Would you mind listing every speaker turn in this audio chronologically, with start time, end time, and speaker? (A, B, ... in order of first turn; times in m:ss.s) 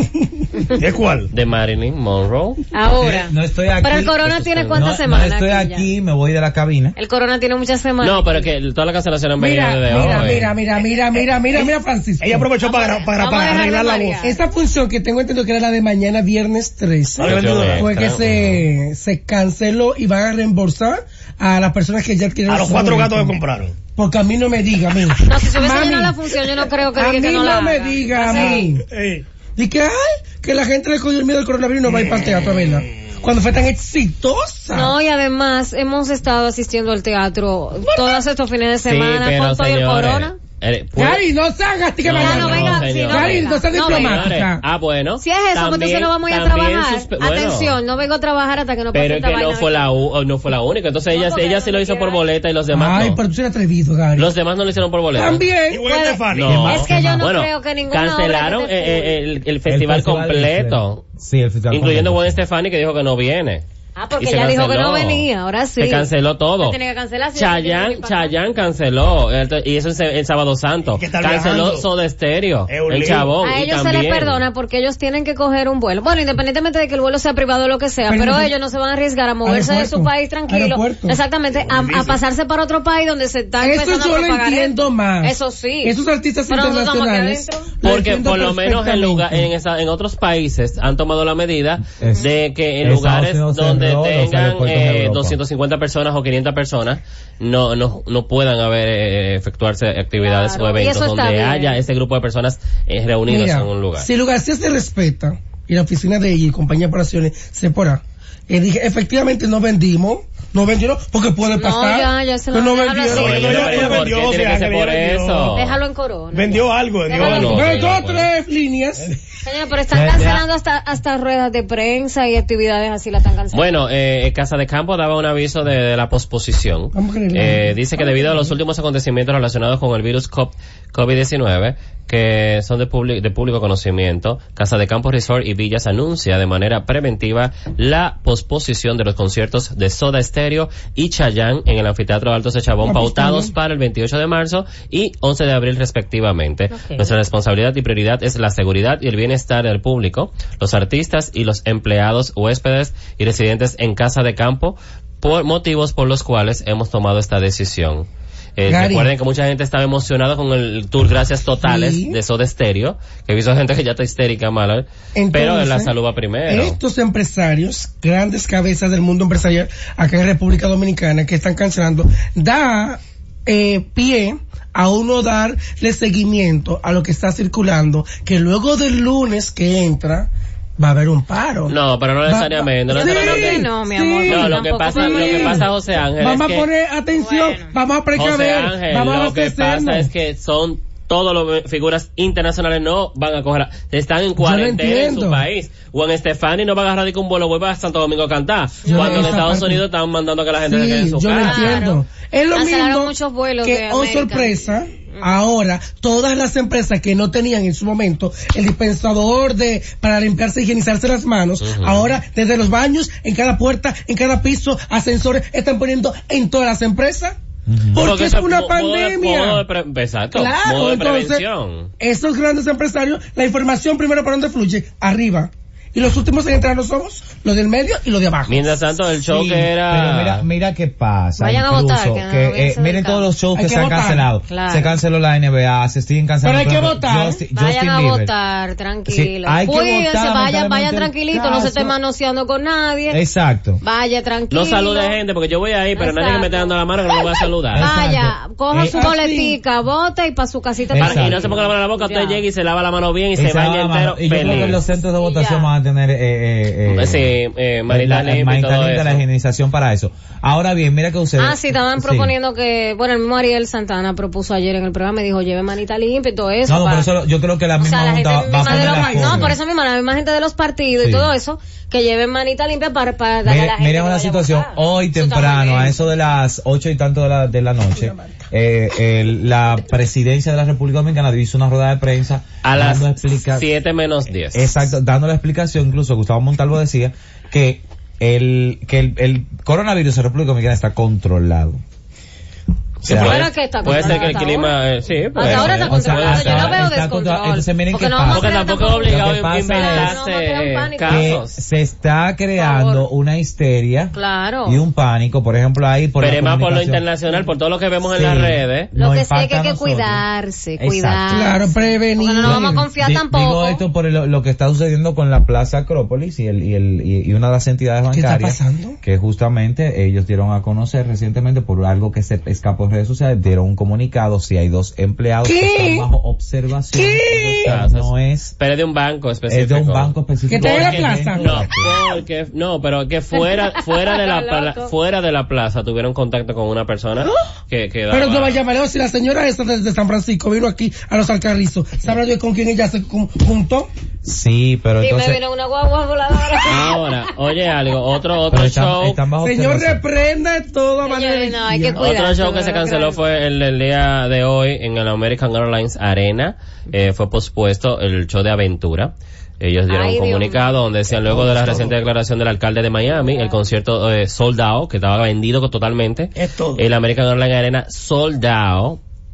0:00.7-0:01.3 A
0:01.3-0:02.6 B
0:02.7-0:05.9 C
0:02.9-0:07.0 D
0:04.5-0:04.8 B
0:07.0-0:08.5 C
0:08.0-0:10.5 B
0:09.4-0:12.5 E
0:09.9-0:10.5 D
0:11.5-0:14.2 A
0:12.6-0:14.4 C
0:14.2-0:23.4 E
0:17.2-0:17.9 A
0:17.2-0:18.7 B
0:22.5-0:23.8 A
0:23.9-0:28.9 E
0:25.2-0:28.7 C
0:28.3-0:29.2 A
0:29.6-0:35.0 E
0:31.9-0:33.2 A
0:34.7-0:40.4 C
0:37.9-0:38.2 E
0:38.8-0:41.2 B
0:41.0-0:44.6 E
0:42.0-0:47.8 B
0:42.1-0:44.3 C
0:45.2-0:49.9 C
0:48.9-0:53.2 B
0:51.1-0:52.2 C
0:52.7-0:54.3 E
0:54.2-0:55.5 B
0:55.2-0:55.9 E
0:55.7-0:56.7 A
0:55.9-0:59.2 C
0:56.3-1:01.0 B
0:56.4-0:57.3 D
0:59.7-1:02.4 D
1:01.7-1:03.6 B
1:04.0-1:06.1 C
1:04.2-1:05.3 B
1:05.8-1:06.8 B
1:06.6-1:08.3 C
1:07.4-1:14.4 B
1:10.9-1:11.9 A
1:12.7-1:13.3 A
1:13.4-1:26.0 C
1:18.1-1:18.5 E
1:19.4-1:21.2 E
1:21.5-1:22.2 A
1:23.6-1:29.5 E
1:26.5-1:27.7 C
1:27.8-1:44.1 B
1:31.9-1:32.3 D
1:32.8-1:35.4 D
1:40.2-1:41.8 C
1:43.3-1:54.1 E
1:51.5-1:54.0 C
1:53.1-1:55.6 A
1:53.1-1:55.8 B
1:55.5-1:57.9 C
1:56.3-1:57.9 A
1:57.1-1:58.3 B
1:57.3-1:59.2 E
1:59.4-2:03.8 C
1:59.9-2:00.4 D
2:03.5-2:38.1 B
2:06.9-2:08.6 E
2:22.8-2:23.5 E
2:26.7-2:27.1 C
2:38.6-2:46.8 B
2:38.7-2:39.1 E
2:41.6-2:42.2 E
2:45.2-2:45.9 E
2:46.5-3:10.1 E
3:01.7-3:03.7 B
3:02.9-3:05.7 C
3:04.3-3:06.7 B
3:07.1-3:07.7 C
3:08.2-3:21.9 B
3:14.4-3:15.4 E
3:18.8-3:19.3 C
3:18.8-3:19.8 E
3:20.6-3:37.4 E
3:21.4-3:22.0 C
3:22.5-3:25.2 C
3:31.6-3:32.2 B
3:37.7-3:38.1 D
3:37.9-3:39.6 E
3:38.0-3:41.9 B
3:40.3-3:41.4 E
3:42.0-3:48.8 E
3:48.5-3:50.4 B
3:49.2-3:58.3 D
3:51.4-3:53.3 C
3:53.6-3:54.3 E
3:54.5-3:55.0 C
3:56.4-3:57.4 E
3:57.5-4:03.2 C
3:59.1-4:01.9 D
4:03.1-4:03.8 D
4:03.8-4:05.2 C
4:04.5-4:07.9 B
4:06.0-4:12.4 C
4:07.7-4:09.1 D
4:08.9-4:09.6 E
4:10.9-4:11.5 D
4:11.0-4:14.8 B
4:13.4-4:17.4 D
4:14.4-4:15.7 C
4:16.9-4:19.2 B
4:17.9-4:22.3 D
4:21.4-4:27.1 C
4:26.7-4:29.6 D
4:27.8-4:36.0 C
4:28.6-4:29.6 E
4:31.0-4:31.3 D
4:33.4-4:43.7 D
4:38.0-4:38.3 E
4:42.6-4:44.7 B
4:44.5-4:51.8 D
4:53.0-4:56.9 B
4:53.0-4:54.2 D
4:53.1-4:54.8 C
4:55.4-5:01.4 C
4:55.4-5:00.2 D
4:58.3-5:01.6 B
5:01.1-5:07.0 D
5:02.6-5:03.1 C
5:04.1-5:04.8 C
5:06.2-5:08.9 B
5:08.1-5:10.2 D
5:09.0-5:13.8 C
5:10.8-5:11.5 D
5:11.3-5:12.9 E
5:12.4-5:28.6 D
5:18.1-5:19.0 E
5:25.4-5:26.1 E
5:26.9-5:27.8 E
5:27.3-5:38.6 B
5:29.5-5:32.0 D
5:30.5-5:31.7 E
5:33.4-5:34.9 C
5:38.1-5:43.9 E
5:44.2-5:45.4 D
5:45.0-5:47.1 C
5:46.6-5:49.2 B
5:48.5-5:50.0 D
5:49.4-5:52.0 E
5:51.0-5:53.2 C
5:52.0-6:09.0 B
5:59.9-6:00.7 C
6:01.2-6:02.0 A
6:06.4-6:06.8 A